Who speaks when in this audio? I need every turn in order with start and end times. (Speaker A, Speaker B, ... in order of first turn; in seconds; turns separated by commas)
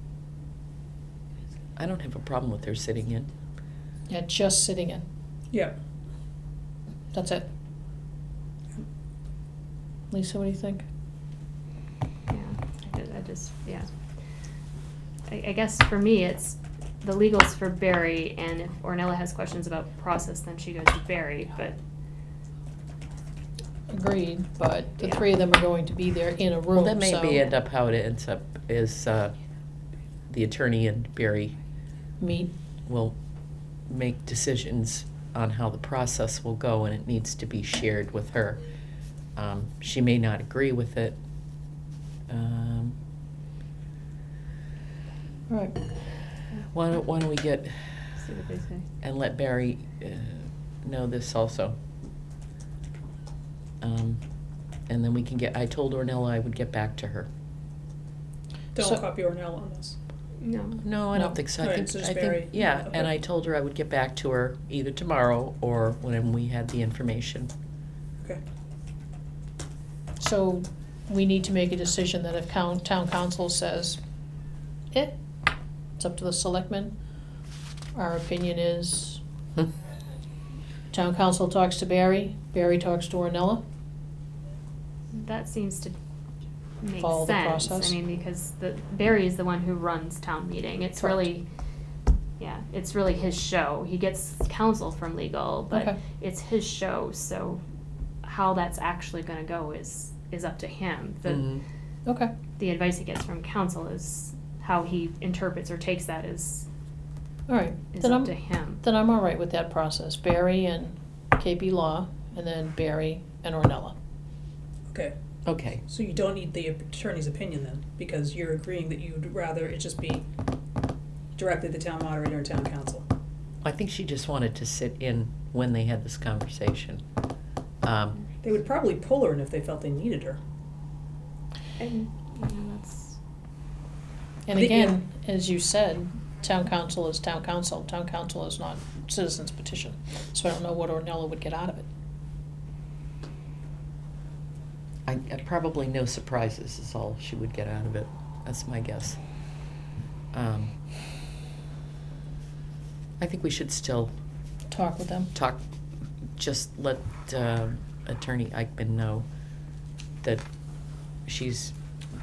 Speaker A: 1.8-3.3, Speaker B: 4.1-5.0, Speaker B: 7.1-7.5, Speaker B: 10.1-10.8, Speaker C: 12.3-13.9, Speaker C: 15.3-21.8, Speaker B: 23.9-27.5, Speaker A: 26.7-29.3, Speaker A: 30.3-31.5, Speaker B: 32.2-32.5, Speaker A: 32.9-33.1, Speaker A: 33.9-38.6, Speaker A: 39.4-41.2, Speaker A: 42.3-43.0, Speaker B: 45.5-45.7, Speaker A: 46.7-47.7, Speaker C: 48.2-48.9, Speaker A: 49.0-51.8, Speaker A: 53.8-54.2, Speaker A: 54.9-57.3, Speaker D: 58.7-60.0, Speaker C: 60.4-60.8, Speaker A: 60.8-67.5, Speaker D: 61.6-63.0, Speaker B: 70.2-74.0, Speaker B: 74.9-75.2, Speaker B: 76.0-76.9, Speaker B: 77.9-79.2, Speaker B: 80.9-83.6, Speaker C: 85.1-85.9, Speaker C: 86.8-91.5, Speaker B: 87.0-88.0, Speaker B: 91.0-91.2, Speaker C: 92.4-97.6, Speaker B: 95.7-96.0, Speaker C: 98.2-101.5, Speaker A: 101.2-101.6, Speaker C: 102.6-106.7, Speaker B: 107.5-114.0, Speaker C: 107.9-108.8, Speaker A: 115.4-115.8, Speaker D: 115.9-120.2, Speaker D: 121.3-123.0, Speaker A: 123.6-127.0, Speaker A: 127.8-128.2, Speaker D: 128.4-130.4, Speaker C: 131.8-133.2, Speaker B: 134.5-141.9, Speaker D: 134.5-134.9, Speaker A: 145.1-149.2, Speaker A: 150.3-150.7, Speaker A: 153.2-154.1, Speaker B: 154.7-155.3, Speaker A: 155.3-155.6, Speaker A: 156.4-159.3, Speaker A: 161.3-161.7